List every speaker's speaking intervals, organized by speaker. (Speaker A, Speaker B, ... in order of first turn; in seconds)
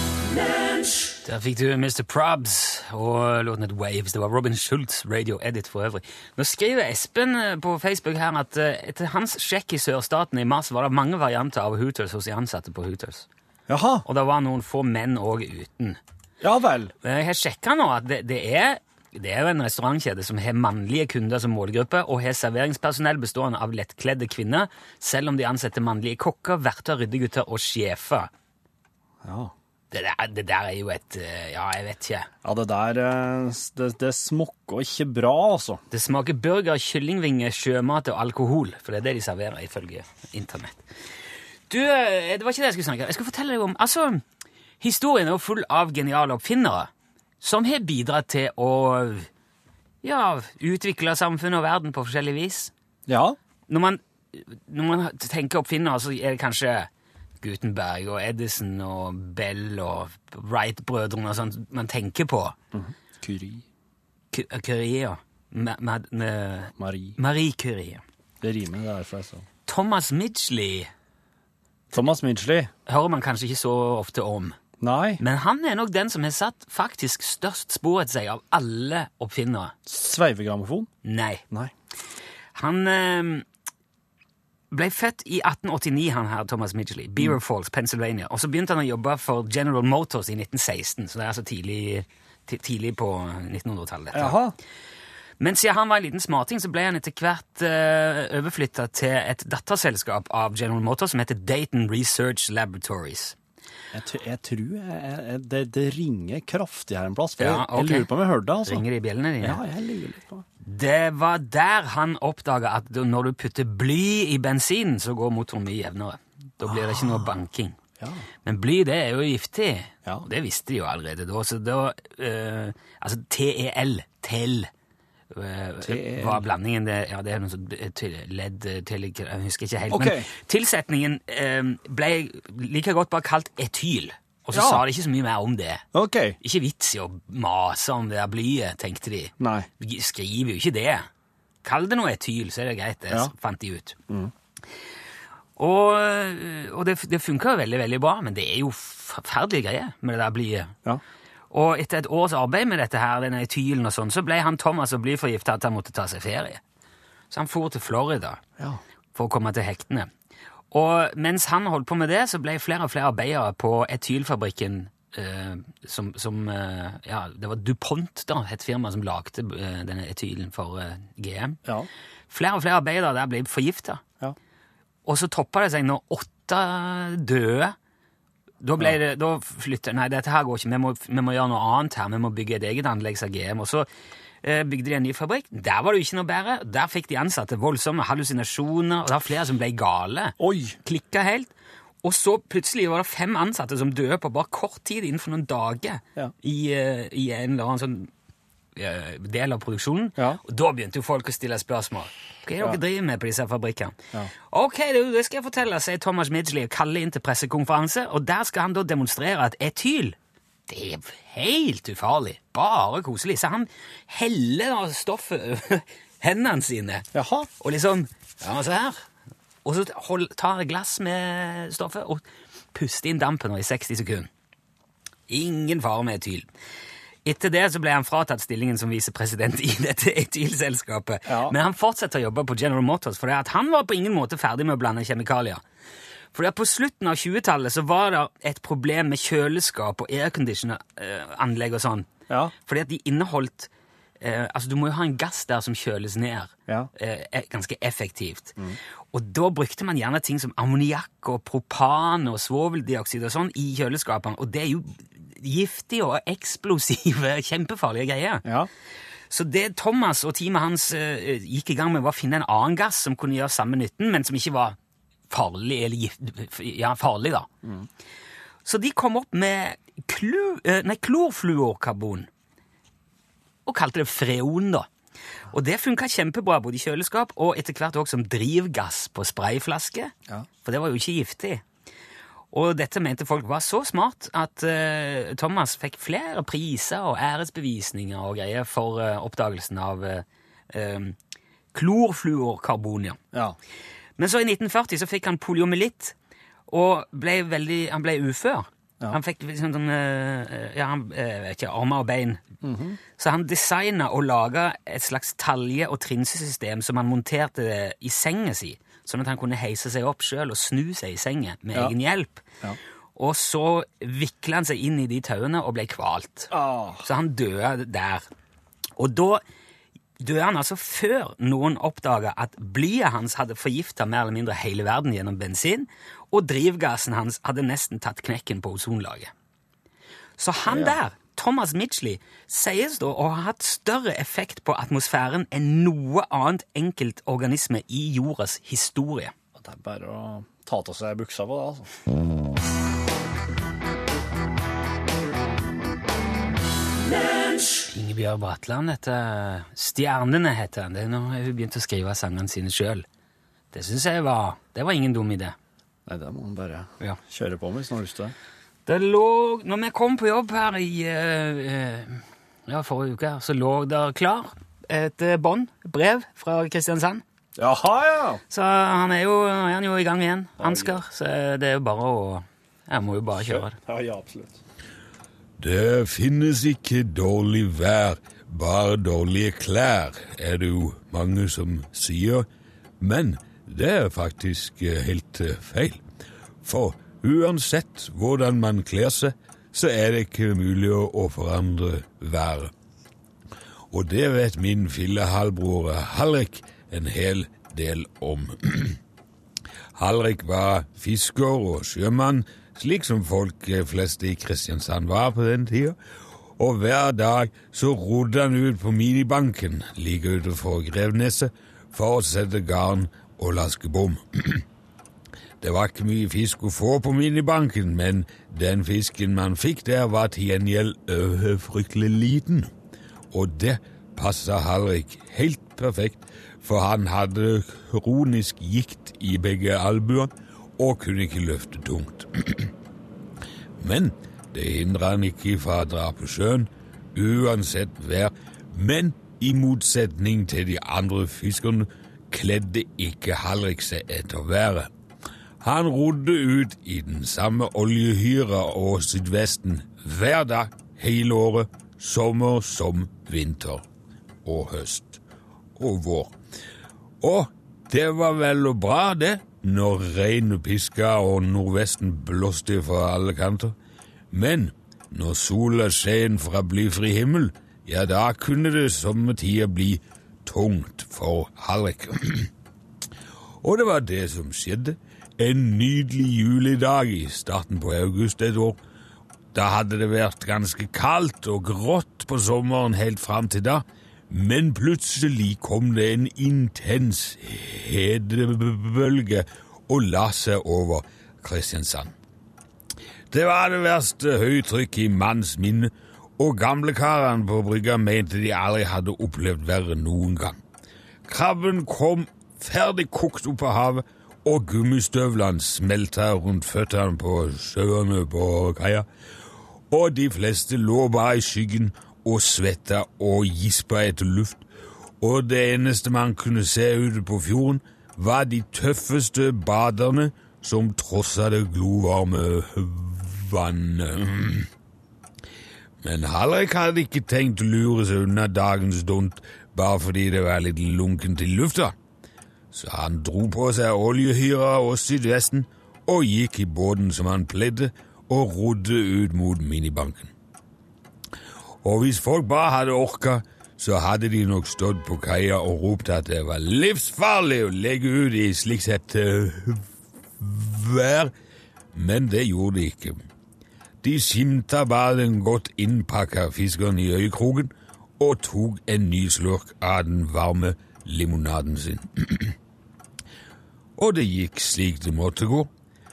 Speaker A: 1.2-13.2, 14.0-16.0, 17.0-28.3, 29.9-32.3, 35.9-40.8, 41.7-44.2, 44.8-46.9, 47.4-49.3, 50.0-52.7, 53.7-56.9, 57.4-62.5, 64.3-68.0, 69.7-70.9, 72.9-74.6, 75.2-79.7, 81.0-81.4, 82.5-83.4, 84.7-94.4, 95.4-103.3, 107.4-108.1, 108.6-109.6, 110.6-117.8, 118.4-124.7, 125.3-135.8, 136.4-141.1, 141.6-143.9, 145.6-150.7, 151.5-156.6, 157.3-158.4, 159.1-160.1, 160.7-171.6, 172.3-174.0, 175.1-177.7, 178.6-183.9, 184.4-191.5, 192.0-198.1, 198.8-210.2, 210.7-217.1, 217.6-219.0, 219.6-224.3, 225.3-226.5, 227.2-235.6, 236.3-242.1, 242.6-248.6, 249.1-258.4, 259.3-264.8, 265.3-267.5, 268.6-272.3, 273.6-274.9, 275.5-281.6, 282.5-291.1, 291.7-293.2, 294.2-296.1, 296.7-302.4, 303.2-312.4, 313.1-318.2, 319.0-319.4, 320.2-329.3, 330.4-339.3, 347.9-353.0, 353.7-355.5, 358.9-367.2, 368.5-373.8
Speaker B: 13.7-14.0, 16.4-16.9, 29.2-29.5, 32.4-35.8, 53.1-53.4, 62.7-63.6, 66.8-67.2, 68.4-69.4, 71.9-72.7, 74.8-75.2, 79.8-80.9, 94.1-94.5, 103.9-108.8, 109.4-110.4, 116.7-117.2, 125.8-126.4, 129.9-130.3, 134.5-134.8, 135.9-136.4, 139.4-139.7, 190.4-190.8, 217.1-217.5, 231.2-231.5, 258.4-258.7, 302.6-303.0, 316.5-317.0, 330.7-330.9, 339.5-341.9, 356.1-358.3, 367.6-368.4, 370.6-371.0, 373.3-374.6
Speaker C: 375.6-382.4, 383.0-386.0, 386.6-392.7, 393.9-399.0, 399.9-405.9, 406.6-414.6, 415.6-422.7, 423.3-432.7, 433.8-444.9, 445.6-453.8, 454.4-455.2, 455.8-456.3, 457.2-463.7, 464.3-472.5, 473.6-478.8, 479.5-492.1, 493.3-500.6, 501.3-509.0, 509.9-514.6, 515.2-524.7, 526.0-531.9, 532.7-540.3, 541.8-549.8, 550.4-551.3, 551.9-553.2, 554.0-562.5, 564.0-565.7